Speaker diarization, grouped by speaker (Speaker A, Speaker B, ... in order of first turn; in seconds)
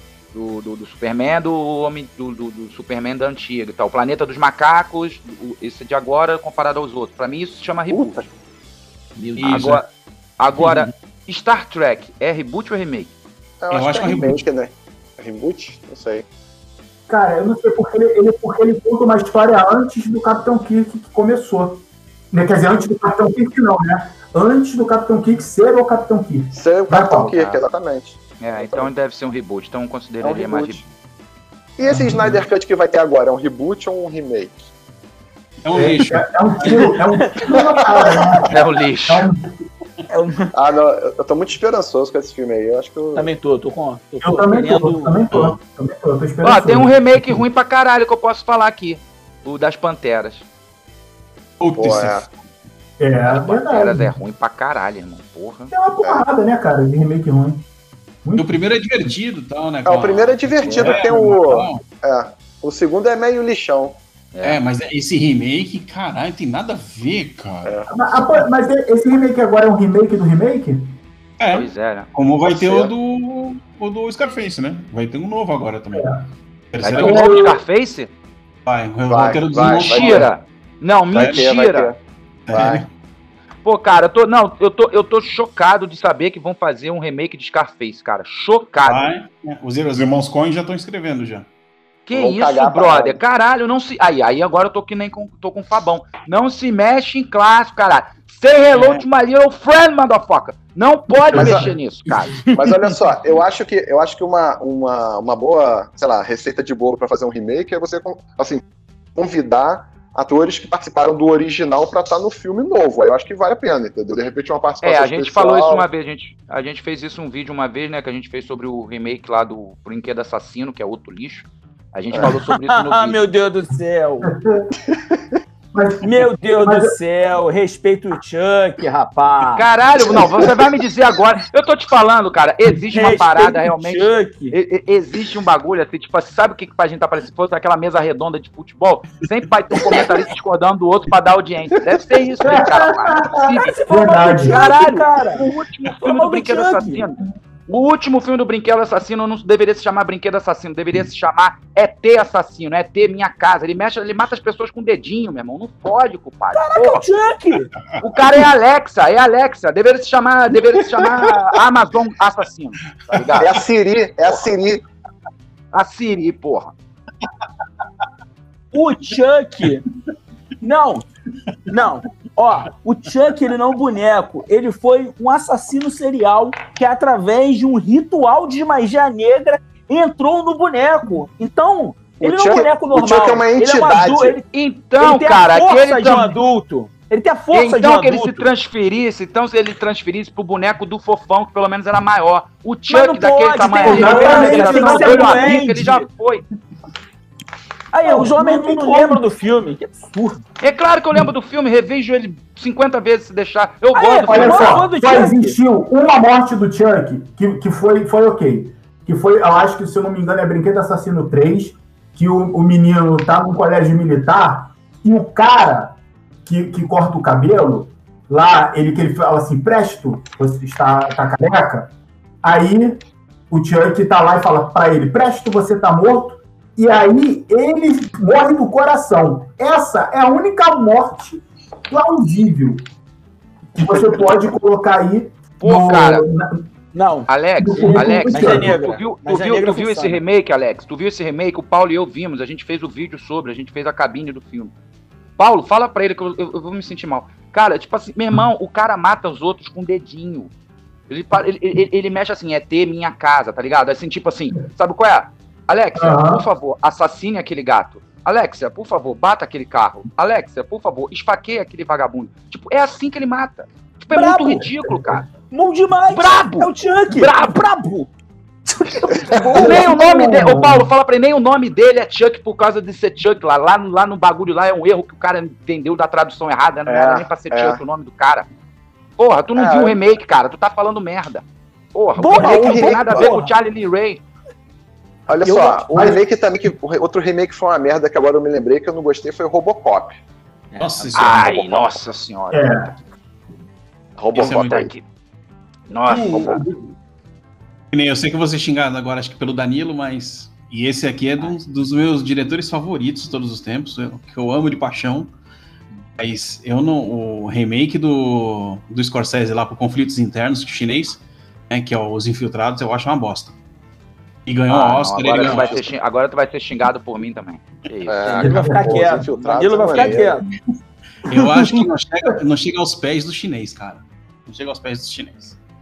Speaker A: 0.3-8.3, 9.5-13.2, 27.3-27.6, 28.4-30.9, 38.5-39.3, 46.4-50.5, 53.2-55.7, 60.7-61.1, 64.3-64.6, 71.5-72.1, 76.8-78.1, 79.7-81.9, 83.6-89.1, 92.1-102.4, 114.8-123.3, 129.4-143.8, 144.4-157.1, 158.0-163.5, 165.7-166.7, 184.5-186.4, 187.5-196.4, 200.6-204.9, 235.6-236.3, 237.3-244.7, 245.4-250.5, 251.1-265.3, 266.1-266.7, 267.2-267.5, 269.4-278.5, 279.2-284.2, 291.1-293.0, 294.4-295.0, 295.9-296.6, 314.7-319.2
Speaker B: 7.9-8.3, 13.6-16.2, 26.5-28.9, 30.2-30.8, 31.8-34.7, 37.4-38.4, 40.5-43.3, 51.8-52.3, 59.9-64.0, 67.6-67.9, 72.5-72.9, 79.1-80.3, 81.1-82.0, 82.5-82.8, 92.1-93.2, 101.3-101.7, 102.5-108.6, 109.2-115.9, 163.3-164.8, 182.2-184.4, 269.4-269.7, 276.9-277.8, 279.6-280.0, 282.3-283.3, 285.3-290.2, 291.4-291.9, 294.2-294.9, 315.3-315.9, 318.1-320.4
Speaker C: 9.2-9.8, 10.6-10.9, 40.1-40.5, 43.1-45.2, 102.4-102.8, 122.2-124.3, 126.0-129.7, 132.9-134.6, 143.7-147.1, 156.5-157.7, 168.7-169.8, 170.6-171.0, 171.7-184.4, 185.0-188.5, 192.9-196.1, 197.9-200.4, 203.9-205.6, 236.9-240.2, 264.1-264.8, 265.4-268.1, 268.6-269.8, 282.2-283.4, 285.4-286.1, 290.7-291.4, 318.4-320.5
Speaker D: 9.4-9.8, 13.7-14.4, 35.6-36.9, 45.3-45.6, 51.6-52.3, 58.4-61.8, 64.4-67.7, 71.4-76.2, 76.7-77.3, 78.7-80.3, 81.1-81.5, 82.5-82.9, 88.8-91.5, 98.7-99.0, 290.8-291.5, 294.3-294.9, 296.1-296.9, 297.9-305.3, 306.2-313.6, 314.5-315.9, 321.2-325.6
Speaker E: 17.1-27.4, 31.9-32.4, 35.7-38.5, 39.1-39.4, 44.2-47.4, 53.0-54.2, 55.7-57.6, 67.9-71.0, 77.0-77.6, 101.3-101.7, 124.3-124.7, 125.7-127.0, 142.4-144.6, 193.8-195.6, 198.0-199.2, 204.3-221.9, 222.4-232.8, 233.8-236.7, 237.6-238.8, 256.0-256.4, 269.5-270.9, 285.9-286.2, 292.5-292.9, 318.5-319.0, 321.3-321.8